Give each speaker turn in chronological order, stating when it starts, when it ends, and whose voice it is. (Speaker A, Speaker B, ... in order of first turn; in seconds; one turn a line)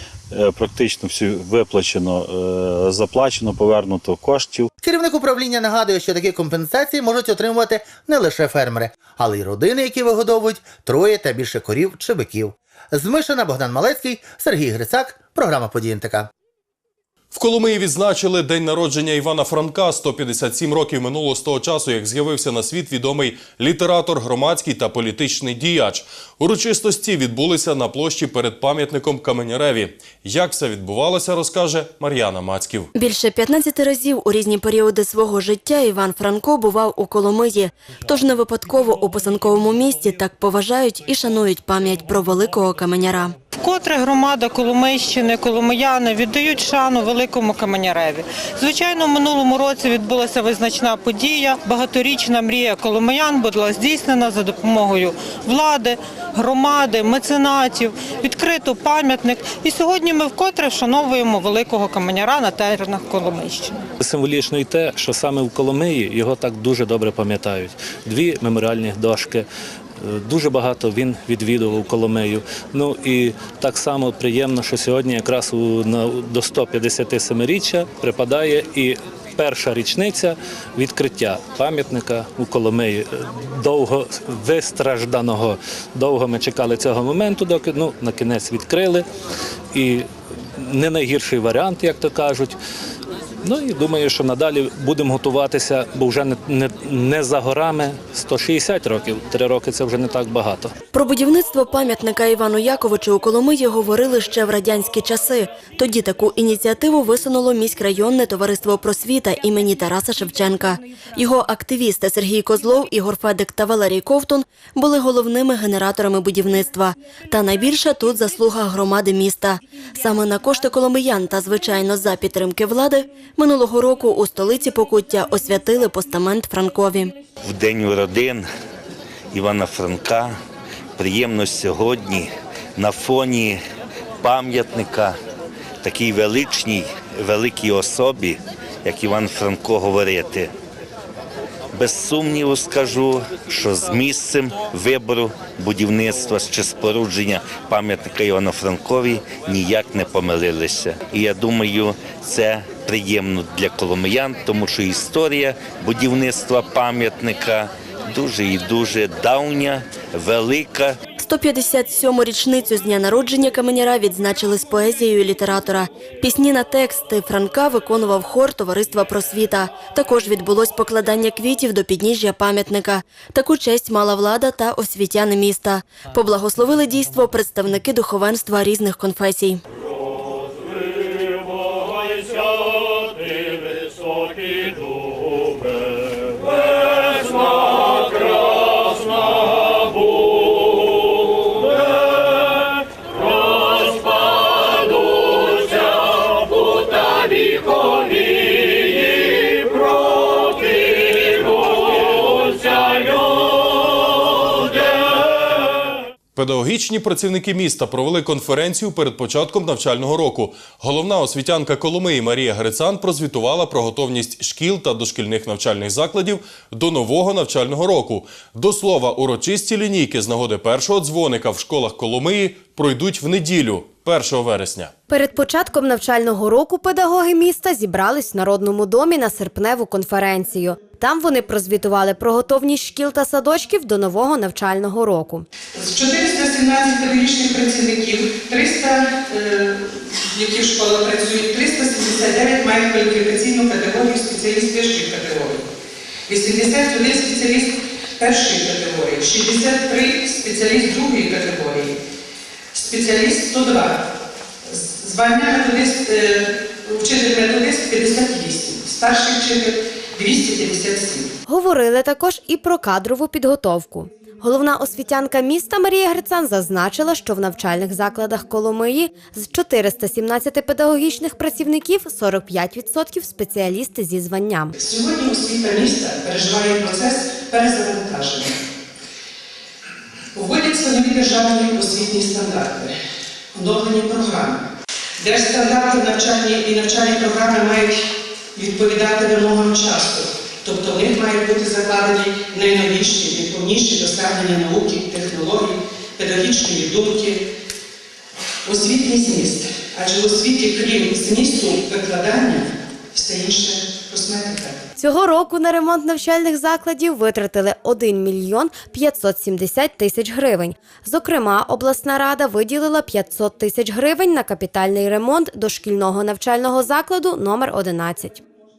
Speaker A: 0.3-4.7
Speaker B: 4.8-16.3
Speaker C: 17.3-32.9
Speaker D: 33.0-43.4
Speaker E: 43.6-63.9
Speaker F: 64.0-69.5
Speaker F: 70.0-89.1
Speaker F: 89.7-92.6
Speaker F: 93.4-100.8
Speaker D: 100.9-127.1
Speaker G: 127.4-128.5
Speaker G: 129.3-130.3
Speaker G: 131.0-133.6
Speaker G: 134.2-135.2
Speaker G: 135.8-140.5
Speaker G: 141.7-161.0
Speaker D: 161.2-179.6
Speaker C: 206.4-224.9
Speaker H: 225.1-235.5
Speaker I: 235.7-245.7
Speaker I: 246.3-252.0
Speaker I: 252.7-254.1
Speaker I: 254.7-261.3
Speaker H: 261.5-274.7
Speaker I: 274.8-278.6
Speaker I: 280.4-282.9
Speaker I: 283.5-284.6
Speaker I: 285.2-297.4
Speaker I: 298.6-304.8
Speaker H: 305.0-318.4